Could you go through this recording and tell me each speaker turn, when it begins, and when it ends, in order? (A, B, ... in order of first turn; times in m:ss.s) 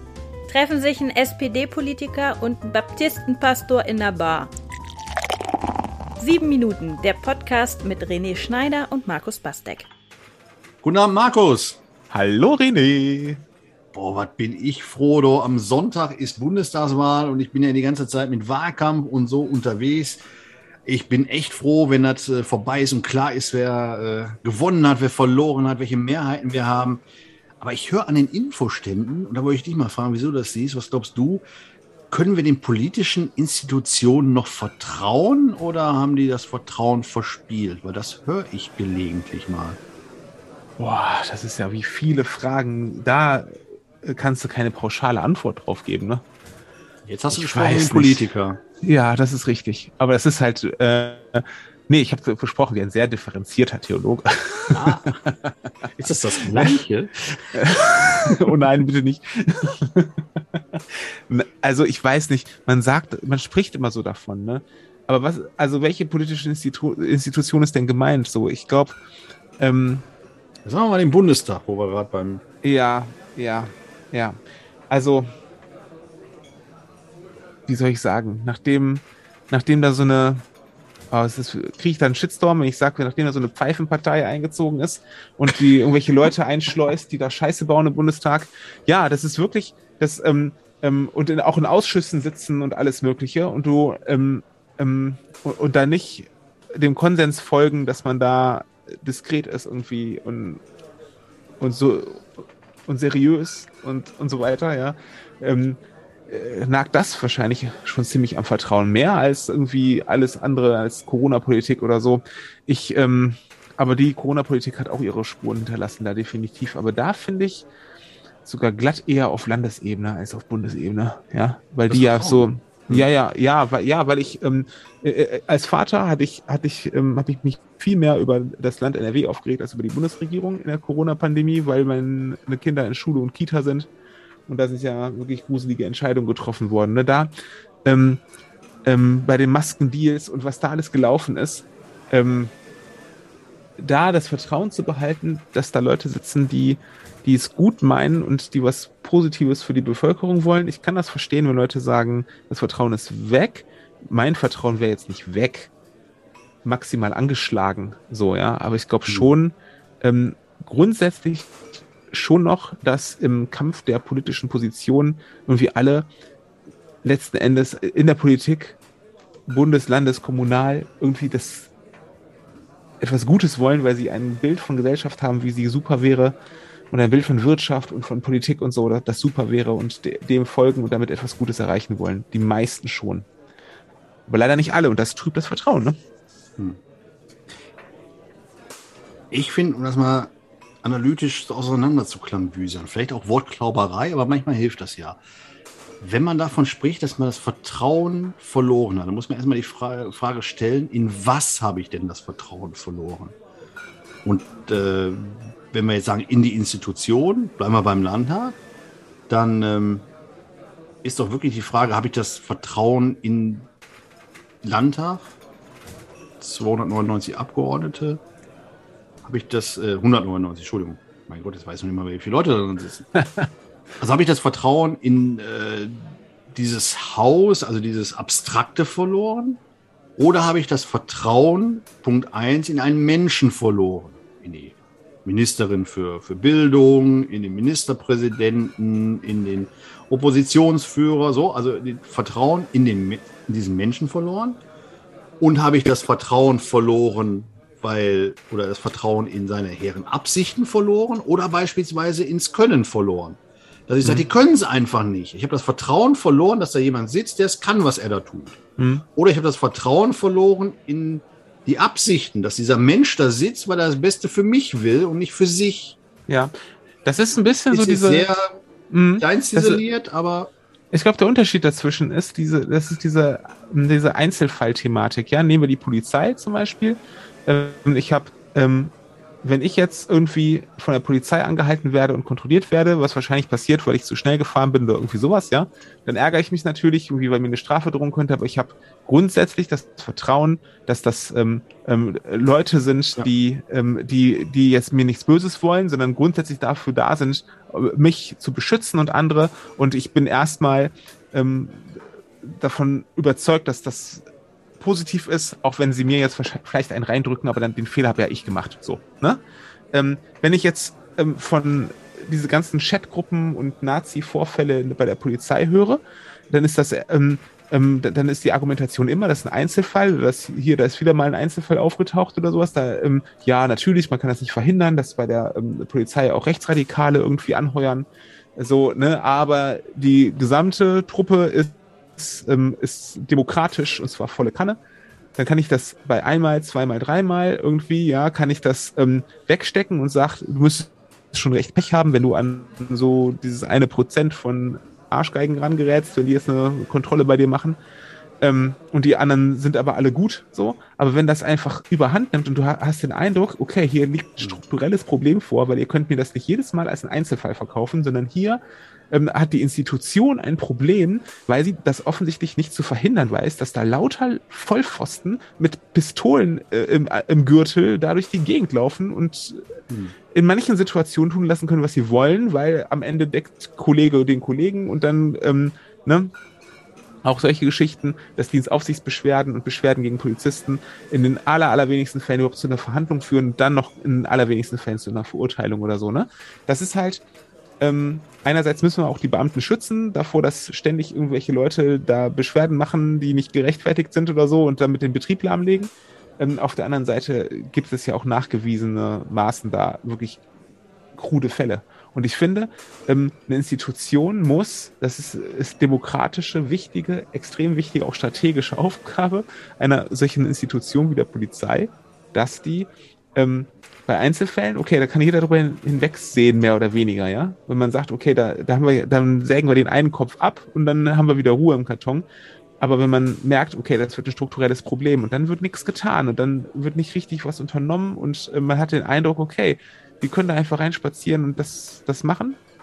0:00.5-0:04.5 A
0:06.2-0:09.9 A
0:10.8-0:11.8 B
0:12.1-0:13.4 C
0:13.9-0:20.2 B
0:20.9-0:27.0 B
0:27.6-0:31.4 B
0:32.1-0:39.8 B
0:40.8-0:46.2 C
0:47.1-0:48.6 B
0:47.3-0:48.3 C
0:48.8-0:55.7 C
0:54.7-0:55.1 B
0:56.0-0:57.1 B
0:56.5-0:56.8 C
0:57.3-1:09.0 C
1:09.6-1:10.0 C
1:10.6-1:12.4 B
1:12.6-1:14.4 C
1:14.9-1:15.3 C
1:17.7-1:20.4 C
1:21.1-1:40.6 C
1:41.6-1:42.3 C
1:42.9-1:57.7 C
1:58.4-2:13.9 C
2:01.9-2:03.1 B
2:14.5-2:17.3 C
2:17.8-2:18.2 C
2:18.9-2:22.5 C
2:23.8-2:35.7 C
2:36.6-2:46.1 C
2:47.0-2:48.8 C
2:49.5-2:51.7 C
2:53.0-2:56.4 C
2:56.9-3:03.3 C
3:04.3-3:06.0 C
3:09.3-3:15.2 B
3:16.0-3:23.4 B
3:24.2-3:28.6 B
3:29.3-3:30.1 B
3:31.0-3:33.7 B
3:34.6-3:35.3 B
3:36.4-3:38.2 B
3:39.2-3:43.1 B
3:44.0-3:49.6 B
3:50.2-4:04.6 B
4:05.4-4:18.6 B
4:14.0-4:14.3 C
4:18.8-4:19.0 C
4:19.2-4:26.0 B
4:26.3-4:28.3 C
4:27.7-4:28.6 B
4:28.9-4:29.8 C
4:29.2-4:30.5 B
4:30.9-5:04.2 C
5:04.8-5:09.4 C
5:09.9-5:34.8 C
5:35.4-5:47.8 C
5:48.4-5:58.6 C
5:59.1-6:09.6 C
6:10.3-6:16.3 C
6:17.2-6:27.2 C
6:27.8-6:40.4 C
6:41.1-7:02.3 C
7:02.8-7:12.6 C